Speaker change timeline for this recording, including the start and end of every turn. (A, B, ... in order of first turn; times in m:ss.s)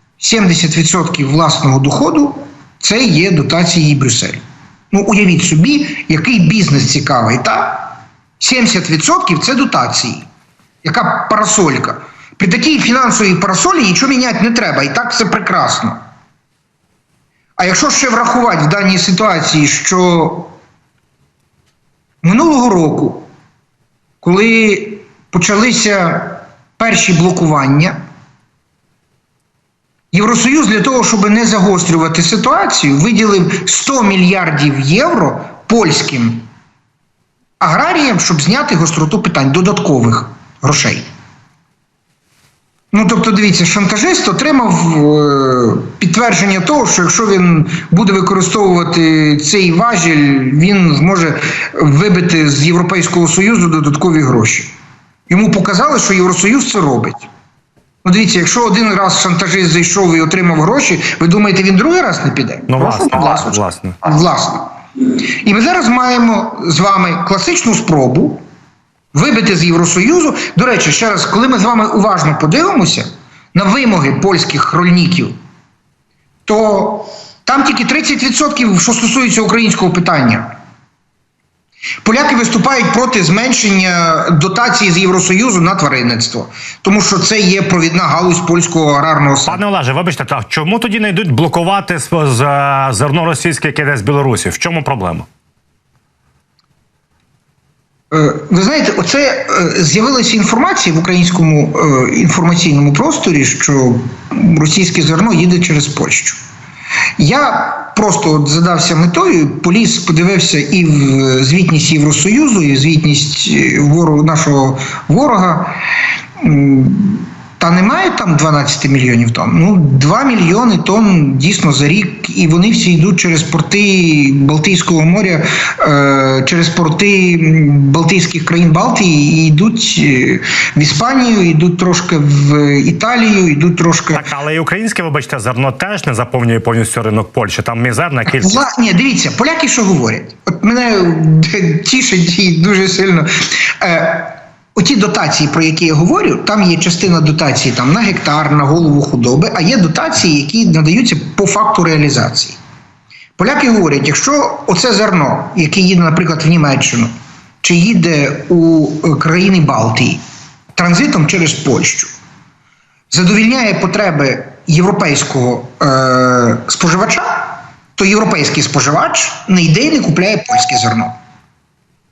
0:00.2-0:10.3 A
0:10.8-0:16.0 A
0:17.6-0:20.6 A
0:22.2-0:23.3 A
0:24.2-0:28.0 A
0:30.1-0:36.5 A
0:37.6-0:41.0 A
0:42.9-0:54.7 A
0:55.3-0:57.3 A
0:58.0-1:08.4 A
1:02.7-1:04.0 B
1:09.1-1:15.3 A
1:16.5-1:20.5 A
1:22.0-1:29.6 A
1:29.5-1:35.3 B
1:38.1-1:46.4 A
1:47.2-1:55.8 A
1:56.4-2:14.3 A
2:14.1-2:18.6 B
2:18.3-2:32.6 A
2:33.4-2:37.1 A
2:37.6-2:40.2 A
2:40.8-2:42.1 A
2:43.1-2:51.2 A